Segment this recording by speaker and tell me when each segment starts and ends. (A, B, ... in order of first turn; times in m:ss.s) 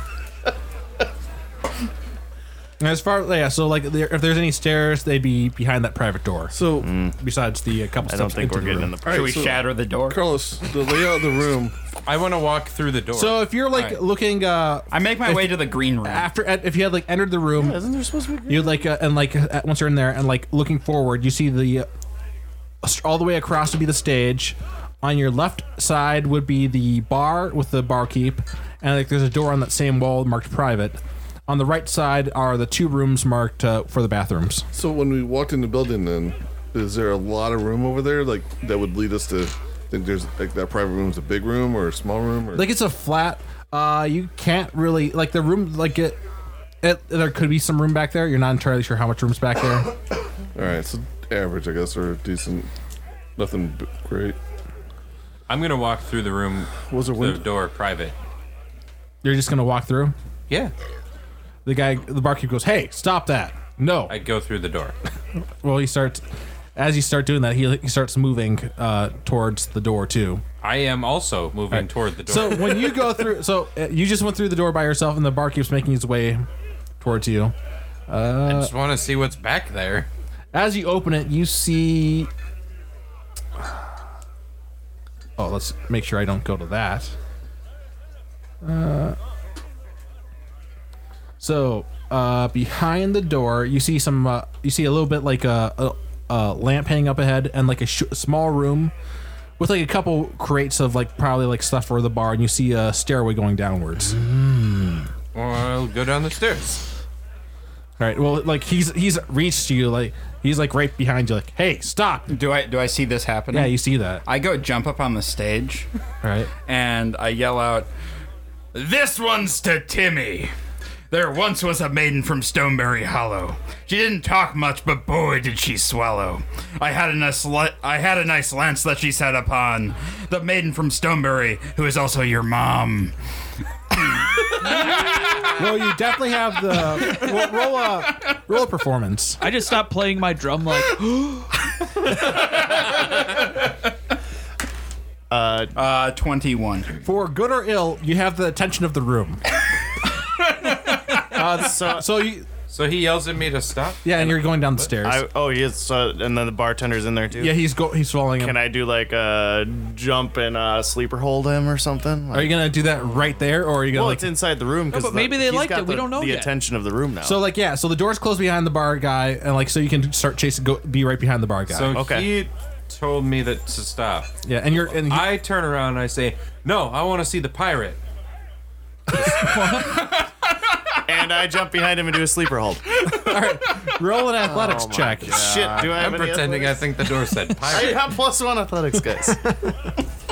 0:02.8-0:06.5 A
0:06.5-0:06.9 B
0:06.8-0:07.2 C
0:07.2-0:08.9 A
0:08.0-0:09.6 C
0:09.0-0:11.7 B
0:09.1-0:10.2 D
0:12.0-0:13.5 E
0:13.1-0:17.8 A
0:13.7-0:14.0 D
0:14.9-0:16.3 D
0:17.5-0:18.8 C
0:18.5-0:21.9 A
0:22.8-0:34.6 A
0:34.7-0:42.7 B
0:42.5-0:46.2 A
0:46.8-0:49.9 A
0:50.5-0:52.7 B
0:53.4-0:54.4 B
0:55.5-0:58.1 E
0:56.9-0:57.4 B
0:59.2-1:00.1 A
1:01.6-1:04.2 A
1:04.1-1:05.0 E
1:05.6-1:06.2 A
1:06.8-1:10.4 A
1:10.6-1:13.0 E
1:11.7-1:16.4 A
1:17.0-1:17.5 A
1:18.1-1:18.7 A
1:18.4-1:20.1 E
1:20.5-1:22.3 A
1:25.4-1:27.1 A
1:28.6-1:29.2 A
1:31.4-1:38.9 A
1:39.6-1:44.2 A
1:45.3-1:46.8 E
1:48.0-1:52.3 A
1:52.3-1:55.9 D
1:53.5-1:54.2 A
1:56.2-1:56.5 A
1:56.7-1:57.9 D
1:58.7-2:00.5 D
2:01.1-2:13.1 D
2:13.9-2:15.6 D
2:15.5-2:19.4 A
2:19.4-2:21.7 F
2:22.4-2:23.0 D
2:25.3-2:25.7 C
2:25.7-2:26.9 D
2:27.0-2:29.4 A
2:30.6-2:30.9 D
2:31.2-2:32.5 A
2:31.4-2:32.1 C
2:32.7-2:34.9 E
2:34.0-2:35.2 A
2:35.0-2:37.6 C
2:37.3-2:38.6 A
2:38.4-2:42.7 C
2:42.3-2:44.3 A
2:43.8-2:47.4 C
2:44.9-2:46.5 F
2:47.2-2:51.9 A
2:51.7-2:58.0 E
2:51.9-2:52.3 C
2:54.4-2:55.4 A
2:59.2-2:59.7 A
2:59.3-3:00.0 F
2:59.7-3:00.3 D
3:01.1-3:03.1 C
3:03.0-3:05.8 A
3:04.4-3:06.8 C
3:05.8-3:08.1 E
3:07.6-3:09.6 C